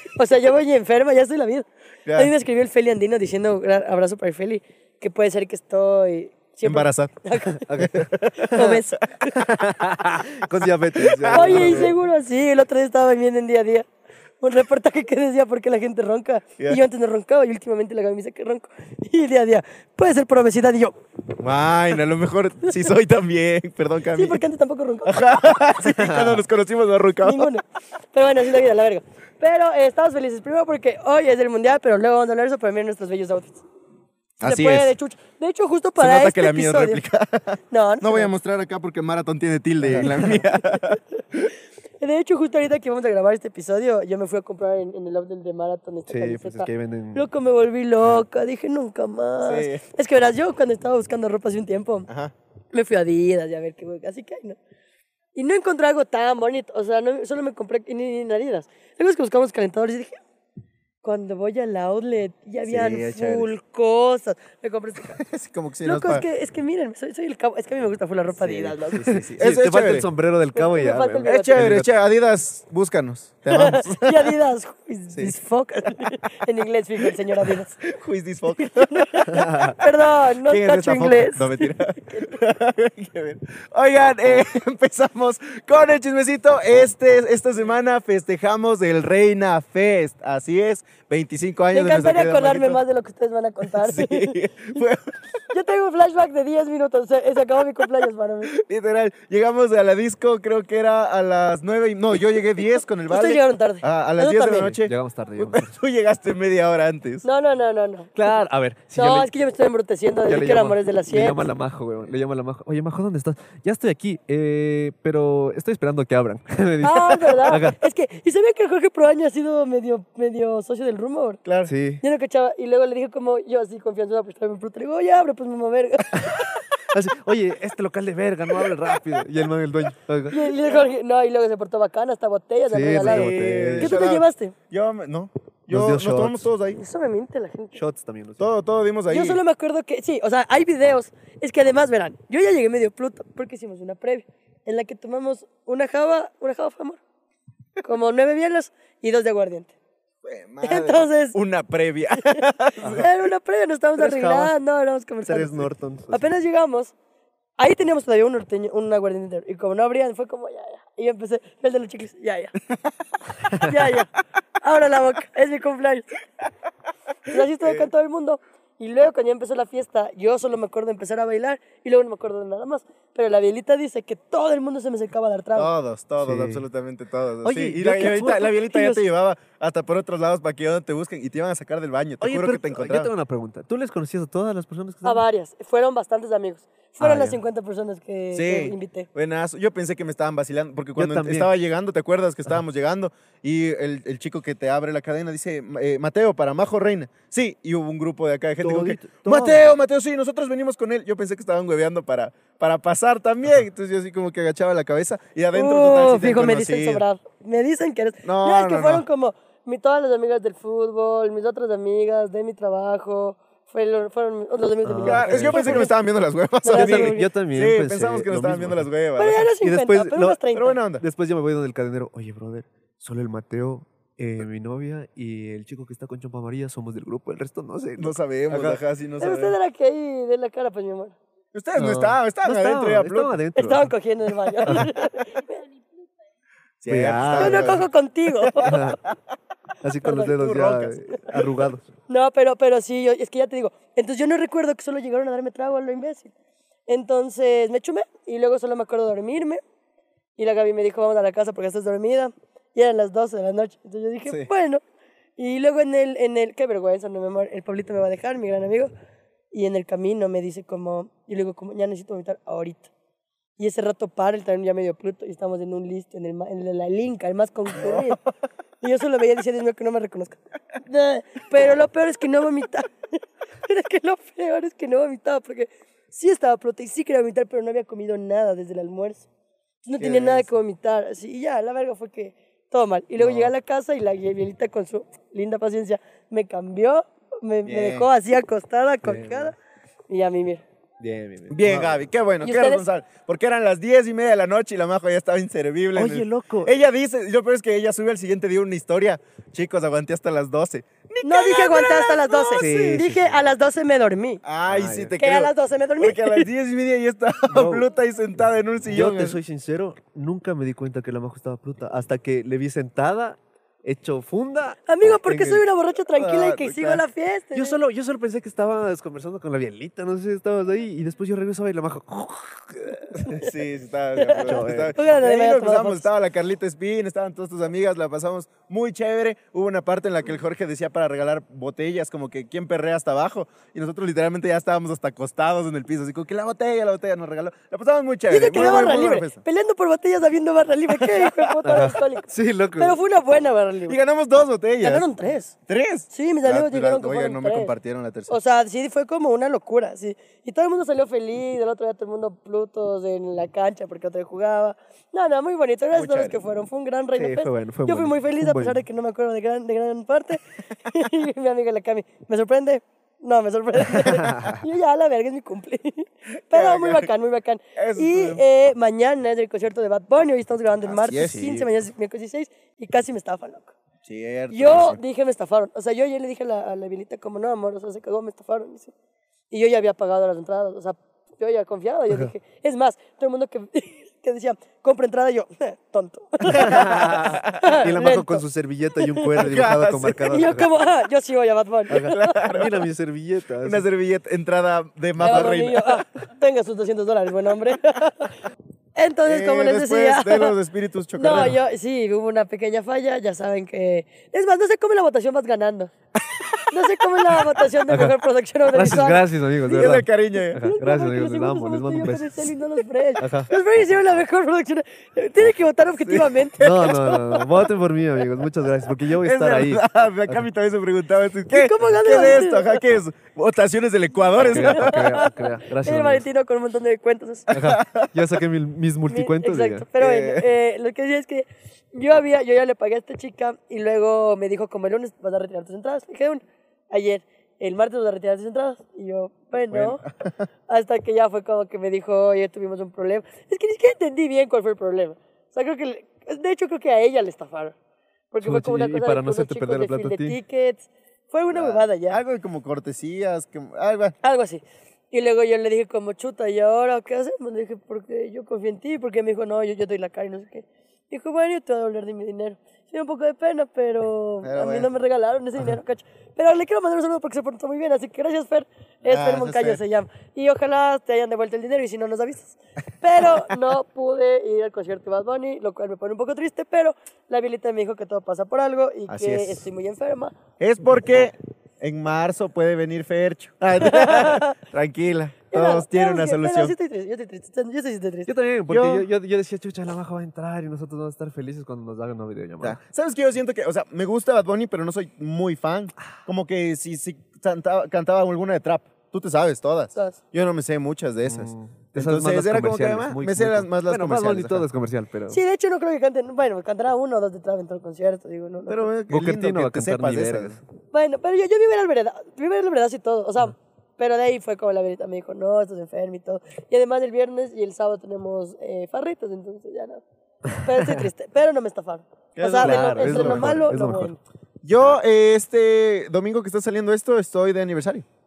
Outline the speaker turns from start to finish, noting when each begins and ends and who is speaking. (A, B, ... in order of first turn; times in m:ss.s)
0:00.2-0:07.7 A
0:02.1-0:02.3 B
0:06.6-0:07.1 B
0:07.5-0:08.8 C
0:07.7-0:08.5 B
0:08.4-0:09.3 A
0:09.3-0:12.0 C
0:11.0-0:11.9 B
0:11.3-0:13.9 A
0:14.4-0:21.0 A
0:21.4-0:24.4 B
0:24.1-0:25.5 A
0:25.1-0:27.5 B
0:25.9-0:26.4 C
0:27.2-0:33.6 A
0:34.4-0:35.0 B
0:34.4-0:37.0 A
0:36.0-0:41.5 B
0:37.7-0:38.3 A
0:39.9-0:40.2 C
0:40.6-0:41.0 A
0:42.0-0:52.1 A
0:46.1-0:47.3 C
0:49.4-0:49.8 B
0:52.1-0:52.3 B
0:52.7-0:54.6 A
0:55.4-1:00.2 A
1:01.0-1:05.2 A
1:02.6-1:03.5 B
1:05.1-1:06.2 B
1:05.8-1:09.2 A
1:08.4-1:10.1 B
1:09.1-1:11.9 C
1:10.6-1:11.6 A
1:11.2-1:14.3 B
1:13.5-1:17.8 A
1:15.1-1:15.4 B
1:17.4-1:19.4 B
1:18.6-1:22.4 A
1:19.3-1:19.8 C
1:20.4-1:32.8 B
1:31.7-1:34.8 A
1:33.7-1:35.2 B
1:35.5-1:38.5 A
1:38.5-1:47.2 B
1:43.1-1:44.8 A
1:44.8-1:45.8 C
1:47.2-1:48.4 A
1:48.2-1:49.3 C
1:49.0-1:51.4 A
1:50.3-1:57.8 C
1:56.8-2:01.4 A
2:01.4-2:01.7 B
2:01.6-2:02.0 C
2:02.0-2:06.7 A
2:06.1-2:10.5 C
2:10.3-2:14.5 A
2:12.7-2:14.0 C
2:13.0-2:16.8 B
2:15.7-2:16.5 C
2:16.8-2:17.8 A
2:17.8-2:18.5 C
2:18.4-2:19.4 B
2:19.1-2:27.0 A
2:27.8-2:29.7 A
2:30.2-2:33.1 B
2:30.6-2:31.4 A
2:32.3-2:35.5 A
2:34.0-2:34.5 C
2:35.3-2:36.3 C
2:36.1-2:36.9 A
2:37.6-2:42.6 A
2:43.4-2:46.2 A
2:47.3-2:55.7 A
2:47.3-2:47.9 B
2:55.6-3:03.1 B
2:56.2-2:56.6 C
2:57.4-2:59.0 C
3:02.2-3:05.2 C
3:05.0-3:09.1 A
3:07.0-3:07.4 C
3:08.3-3:27.0 B
3:11.0-3:11.5 C
3:18.6-3:19.8 C
3:25.5-3:35.9 A
3:28.2-3:29.0 B
3:34.8-3:35.9 C
3:35.0-3:39.5 B
3:36.6-3:37.3 A
3:36.7-3:38.9 C
3:39.2-3:40.8 A
3:39.6-3:40.4 C
3:40.5-3:41.0 B
3:41.0-3:48.8 C
3:48.0-3:49.6 B
3:49.2-3:51.2 A
3:51.5-3:53.4 B
3:51.8-3:53.9 C
3:53.6-3:55.6 A
3:54.6-3:54.9 C
3:56.8-3:57.9 B
3:56.9-3:57.8 C
3:57.4-3:58.9 A
3:58.4-3:58.8 B
3:58.6-3:59.0 C
3:59.8-4:01.8 C
4:00.0-4:00.3 A
4:00.3-4:01.5 B
4:02.1-4:06.3 A
4:06.9-4:09.6 A
4:10.4-4:14.8 A
4:15.4-4:18.9 A
4:19.5-4:22.9 A
4:23.6-4:28.2 A
4:27.8-4:28.1 B
4:28.8-4:33.0 A
4:33.6-4:39.3 A
4:39.8-4:49.5 A
4:40.0-4:40.5 B
4:43.2-4:43.5 C
4:47.6-4:48.1 B
4:49.0-4:49.5 C
4:50.1-4:50.6 A
4:51.0-4:52.0 C
4:51.5-5:02.6 B
4:52.4-4:52.8 A
4:56.0-4:56.7 C
5:01.2-5:04.4 A
5:02.6-5:03.3 C
5:04.4-5:09.4 B
5:04.7-5:05.2 C
5:05.2-5:06.5 A
5:07.5-5:07.8 C
5:08.9-5:15.6 C
5:14.9-5:17.8 A
5:16.1-5:17.0 B
5:17.5-5:23.5 C
5:23.3-5:39.4 B
5:24.2-5:26.1 A
5:24.4-5:25.0 C
5:38.3-5:44.0 A
5:41.0-5:41.6 B
5:41.6-5:43.0 C
5:43.9-5:45.1 B
5:44.8-5:45.5 A
5:45.7-5:48.4 B
5:46.1-5:47.7 A
5:48.3-6:13.8 A
5:55.9-5:56.4 B
5:57.2-5:58.8 C
6:04.0-6:04.6 C
6:06.5-6:07.1 B
6:07.8-6:08.4 B
6:10.8-6:11.7 B
6:11.1-6:11.6 C
6:14.0-6:15.0 B
6:14.5-6:18.9 A
6:19.5-6:28.4 A
6:26.6-6:27.8 B
6:26.6-6:30.7 C
6:29.0-6:29.4 A
6:29.4-6:30.3 B
6:30.2-6:32.1 A
6:31.9-6:33.8 C
6:31.9-6:32.9 B
6:33.6-6:36.0 B
6:35.2-6:38.4 A
6:39.0-6:40.6 A
6:39.2-6:41.6 B
6:41.2-6:45.9 A
6:46.3-6:47.4 B
6:46.7-6:57.4 A
6:47.9-6:48.2 C
6:48.7-6:52.5 C
6:49.7-6:50.6 B
6:53.2-6:53.5 C
6:56.0-6:57.0 B
6:56.6-7:00.4 C
6:59.2-7:05.1 B
7:01.5-7:02.8 A
7:04.4-7:06.3 C
7:04.5-7:07.5 A
7:07.5-7:08.4 B
7:07.5-7:09.9 C
7:09.1-7:20.0 A
7:10.0-7:10.5 B
7:19.7-7:20.5 B
7:20.7-7:27.8 A
7:28.3-7:32.2 A
7:28.4-7:30.4 C
7:31.5-7:34.2 B
7:34.2-8:00.4 A
7:44.4-7:44.9 B
7:49.1-7:49.8 B
7:53.2-7:53.5 B
7:59.1-7:59.7 B
8:00.6-8:06.7 B
8:03.8-8:04.6 A
8:05.5-8:08.3 A
8:08.3-8:12.8 C
8:08.7-8:09.1 B
8:12.6-8:24.7 B
8:21.3-8:25.4 C
8:25.3-8:28.9 A
8:28.7-8:30.6 B
8:29.1-8:30.6 C
8:30.9-8:40.0 A
8:40.6-8:41.0 C
8:40.6-8:44.2 A
8:42.4-8:43.7 B
8:42.6-8:44.1 C
8:44.6-8:48.1 B